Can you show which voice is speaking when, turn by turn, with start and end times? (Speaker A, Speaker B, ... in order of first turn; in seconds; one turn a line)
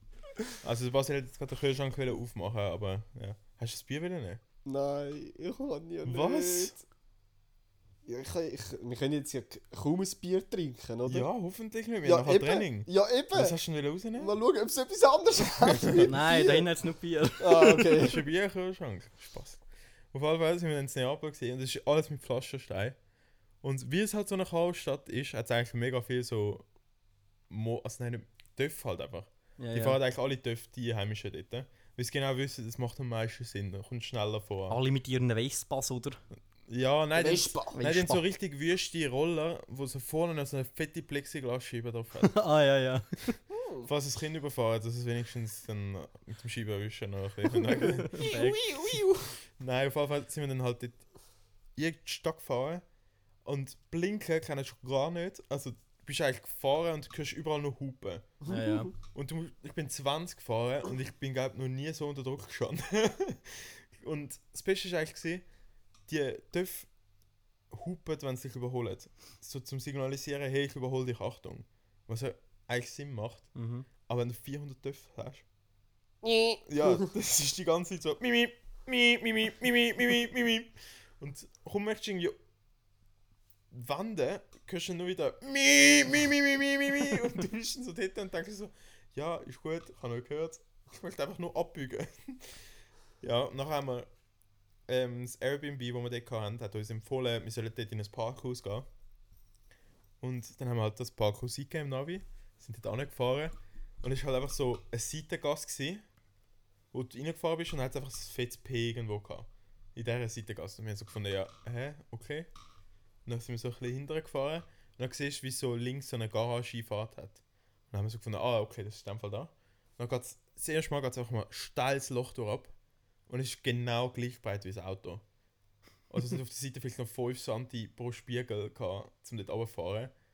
Speaker A: 0.6-4.4
Speaker B: 4.6-6.7
Speaker A: 6.0-6.8
Speaker B: 8.1-11.3
Speaker A: 11.1-14.3
Speaker B: 12.0-13.6
Speaker B: 14.2-16.6
Speaker C: 15.9-18.0
Speaker B: 17.4-18.2
Speaker A: 18.0-19.6
Speaker A: 20.1-23.0
Speaker A: 23.6-26.6
Speaker A: 27.5-34.8
Speaker C: 29.6-30.0
Speaker C: 34.7-36.2
Speaker A: 36.7-42.4
Speaker B: 37.1-37.7
Speaker C: 37.6-38.2
Speaker C: 42.2-43.4
Speaker B: 43.5-43.9
Speaker A: 43.8-49.0
Speaker C: 48.1-48.6
Speaker B: 48.2-49.2
Speaker A: 49.6-51.0
Speaker A: 51.8-52.8
Speaker A: 53.4-58.4
Speaker C: 58.5-58.9
Speaker A: 59.1-65.4
Speaker A: 66.1-66.9
Speaker A: 67.7-73.5
Speaker C: 73.5-73.9
Speaker A: 74.0-75.4
Speaker B: 76.2-77.0
Speaker A: 76.7-82.4
Speaker A: 83.7-92.6
Speaker A: 93.2-94.1
Speaker A: 94.9-98.9
Speaker A: 100.2-106.0
Speaker A: 106.9-112.5
Speaker A: 113.2-122.7
Speaker A: 123.3-125.2
Speaker A: 126.1-130.1